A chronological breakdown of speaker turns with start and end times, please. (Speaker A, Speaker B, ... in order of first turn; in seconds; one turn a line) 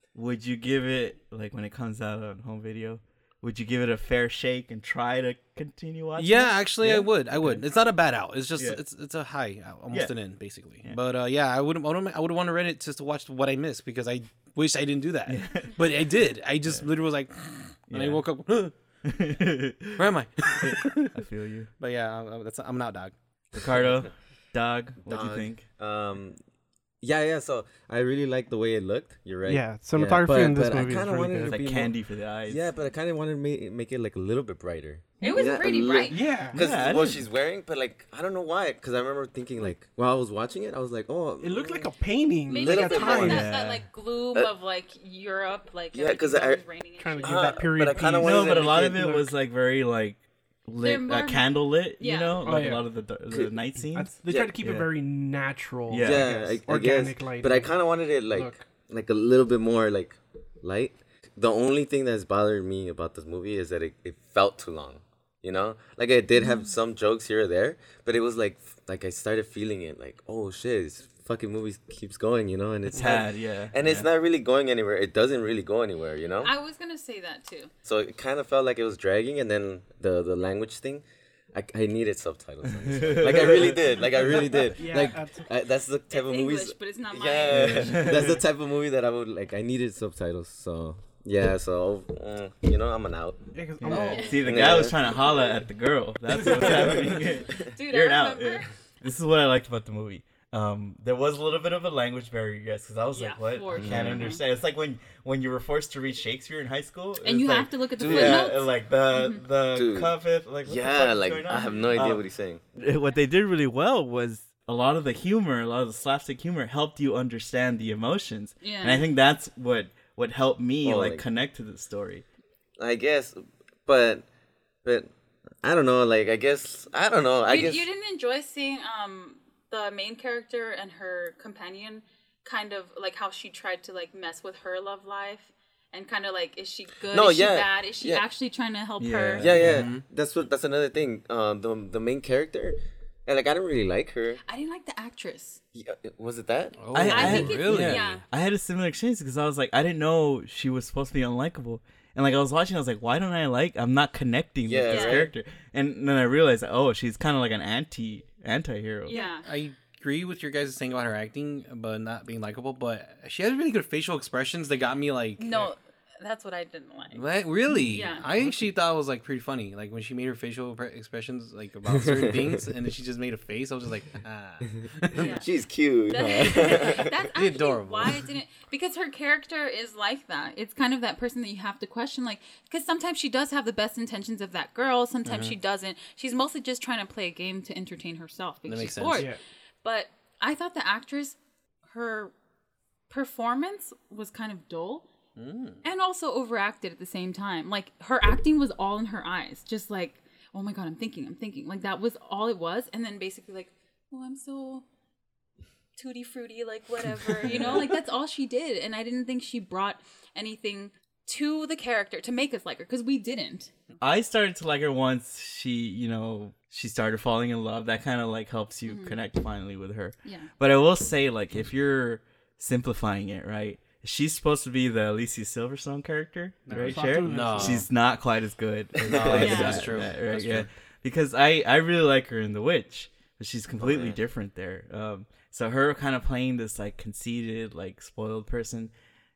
Speaker A: 0.1-7.7
Speaker B: 6.2-18.7
Speaker A: 8.6-8.8
Speaker A: 9.9-10.2
Speaker A: 15.3-15.7
Speaker A: 17.9-18.2
Speaker A: 19.1-21.7
Speaker B: 20.0-21.0
Speaker B: 21.8-23.1
Speaker A: 23.5-25.7
Speaker C: 25.1-26.4
Speaker C: 27.0-31.9
Speaker D: 29.5-31.6
Speaker A: 31.4-32.6
Speaker C: 32.5-41.9
Speaker E: 35.2-36.2
Speaker D: 35.2-36.6
Speaker A: 36.5-37.2
Speaker D: 41.4-43.5
Speaker E: 42.5-47.7
Speaker C: 42.5-43.5
Speaker A: 43.0-43.8
Speaker C: 45.9-46.6
Speaker D: 47.0-49.3
Speaker C: 47.2-49.1
Speaker A: 48.2-54.9
Speaker E: 50.8-51.5
Speaker E: 52.0-52.4
Speaker D: 52.5-52.8
Speaker D: 53.9-57.7
Speaker C: 54.3-54.5
Speaker A: 55.9-56.3
Speaker C: 56.0-76.5
Speaker D: 58.3-58.6
Speaker E: 66.4-66.7
Speaker A: 72.9-74.1
Speaker E: 76.4-77.7
Speaker C: 77.8-93.5
Speaker A: 82.8-83.8
Speaker D: 84.3-85.5
Speaker E: 86.1-87.8
Speaker A: 87.5-88.4
Speaker D: 93.5-94.4
Speaker A: 93.8-112.2
Speaker E: 94.0-94.4
Speaker C: 94.4-95.5
Speaker C: 96.4-97.5
Speaker E: 97.6-98.7
Speaker E: 103.1-104.4
Speaker C: 103.8-104.3
Speaker E: 107.2-109.4
Speaker C: 108.0-108.6
Speaker C: 109.7-112.6
Speaker E: 111.5-112.0
Speaker A: 112.8-122.2
Speaker E: 118.6-119.1
Speaker C: 120.8-121.2
Speaker C: 122.8-124.3
Speaker C: 124.8-125.1
Speaker C: 125.6-127.9
Speaker E: 127.5-139.5
Speaker C: 137.1-138.2
Speaker A: 139.0-139.8
Speaker C: 139.4-144.4
Speaker B: 139.5-140.1
Speaker E: 144.4-145.6
Speaker C: 145.7-147.4
Speaker B: 146.8-148.1
Speaker A: 146.9-159.2
Speaker E: 147.1-148.2
Speaker C: 154.6-155.3
Speaker E: 154.9-155.2
Speaker E: 159.1-159.5
Speaker B: 159.1-165.7
Speaker E: 165.4-167.2
Speaker B: 167.1-175.3
Speaker E: 167.8-168.3
Speaker C: 172.0-172.6
Speaker C: 175.1-177.1
Speaker E: 175.2-175.5
Speaker E: 176.1-189.3
Speaker B: 177.3-178.2
Speaker B: 185.2-185.6
Speaker B: 188.7-189.3
Speaker E: 189.8-191.4
Speaker E: 191.9-192.3
Speaker E: 193.1-195.1
Speaker B: 195.4-195.8
Speaker E: 195.8-204.8
Speaker E: 206.0-213.7
Speaker A: 207.4-207.9
Speaker A: 214.0-238.9
Speaker E: 218.9-219.2
Speaker E: 220.2-220.5
Speaker D: 226.7-227.9
Speaker B: 226.8-227.9
Speaker C: 229.1-229.8
Speaker B: 229.1-230.7
Speaker E: 229.4-229.8
Speaker C: 233.8-234.2